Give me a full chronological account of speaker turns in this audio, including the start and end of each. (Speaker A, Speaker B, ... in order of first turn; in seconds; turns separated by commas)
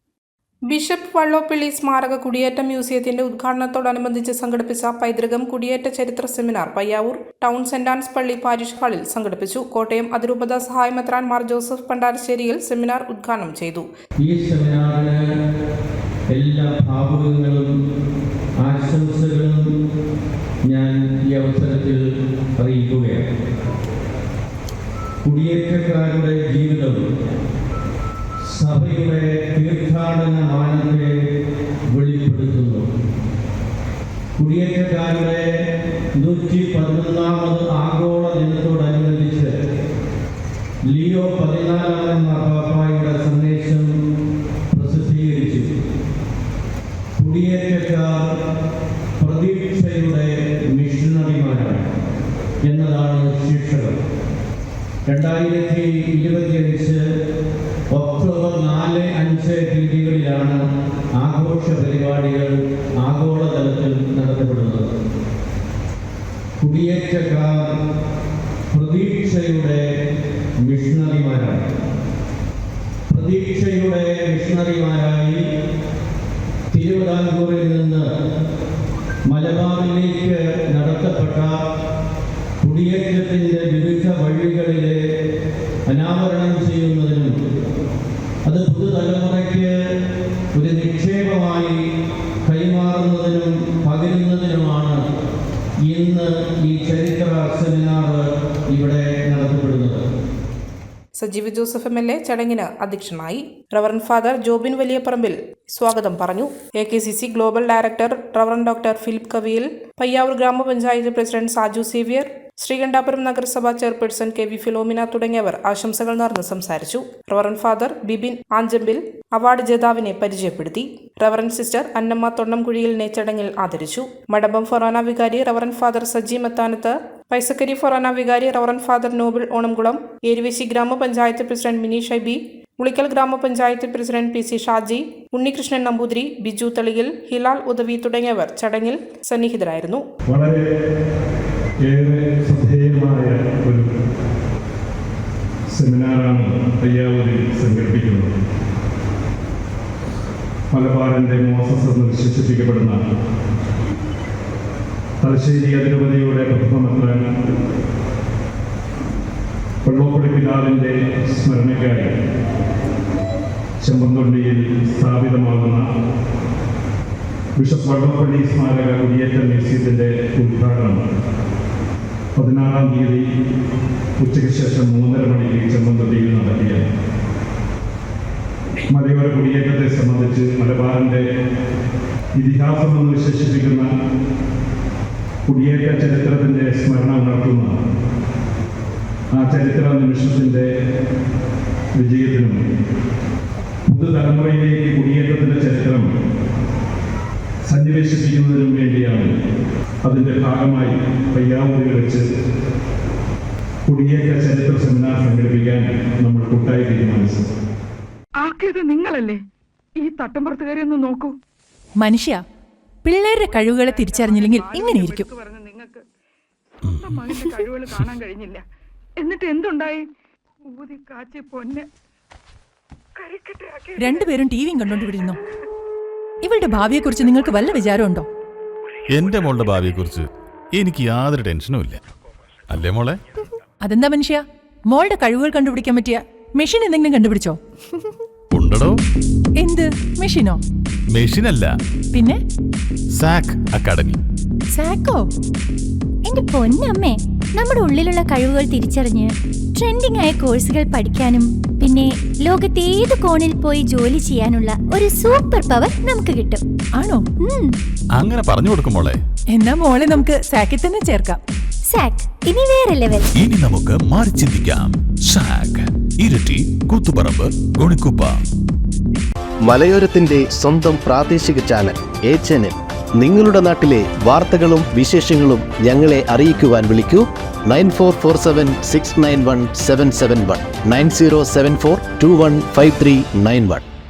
Speaker A: 0.7-13.9, Speaker B: 14.2-15.2, Speaker B: 16.3-17.7, Speaker B: 18.6-19.7, Speaker B: 20.6-22.0, Speaker B: 22.6-23.3, Speaker B: 25.2-27.0, Speaker B: 28.4-31.2, Speaker B: 31.9-32.9, Speaker B: 34.4-35.5, Speaker B: 36.1-39.6, Speaker B: 40.9-43.9, Speaker B: 44.7-45.7, Speaker B: 47.2-48.3, Speaker B: 49.2-51.9, Speaker B: 52.6-54.0, Speaker B: 55.1-57.0, Speaker B: 57.9-60.6, Speaker B: 61.1-64.9, Speaker B: 66.6-67.7, Speaker B: 68.7-69.8, Speaker B: 70.6-71.7, Speaker B: 73.1-75.4, Speaker B: 76.7-78.0, Speaker B: 79.3-81.6, Speaker B: 82.6-85.0, Speaker B: 85.9-87.3, Speaker B: 88.4-89.7, Speaker B: 90.5-91.8, Speaker B: 92.4-95.0, Speaker B: 95.8-100.0, Speaker A: 101.2-140.0, Speaker C: 140.3-140.6, Speaker C: 141.9-143.9, Speaker C: 145.7-148.3, Speaker C: 150.7-153.0, Speaker C: 155.2-157.2, Speaker C: 159.8-162.1, Speaker C: 163.8-165.9, Speaker C: 167.6-171.0, Speaker C: 172.4-173.2, Speaker C: 174.2-176.8, Speaker C: 178.9-181.2, Speaker C: 182.4-183.9, Speaker C: 185.5-187.7, Speaker C: 189.3-190.7, Speaker C: 192.0-192.6, Speaker C: 193.9-196.1, Speaker C: 197.7-199.3, Speaker C: 200.1-202.2, Speaker C: 203.9-207.4, Speaker D: 208.4-209.4, Speaker D: 210.0-211.4, Speaker E: 212.0-212.4, Speaker E: 213.1-215.3, Speaker D: 213.4-216.1, Speaker F: 216.8-217.2, Speaker D: 216.9-218.7, Speaker D: 219.2-220.1, Speaker D: 220.7-221.9, Speaker D: 223.2-225.3, Speaker E: 224.0-225.4, Speaker E: 226.4-228.3, Speaker F: 229.1-232.0, Speaker F: 232.7-233.2, Speaker E: 233.8-237.6, Speaker F: 238.5-238.9, Speaker E: 239.6-240.6, Speaker F: 241.1-241.7, Speaker F: 243.2-244.2, Speaker E: 244.8-245.2, Speaker G: 246.2-256.6, Speaker E: 257.0-257.2, Speaker G: 257.4-257.8, Speaker F: 258.2-259.2, Speaker E: 259.5-261.4, Speaker G: 261.9-263.3, Speaker F: 263.4-268.3, Speaker H: 269.6-283.8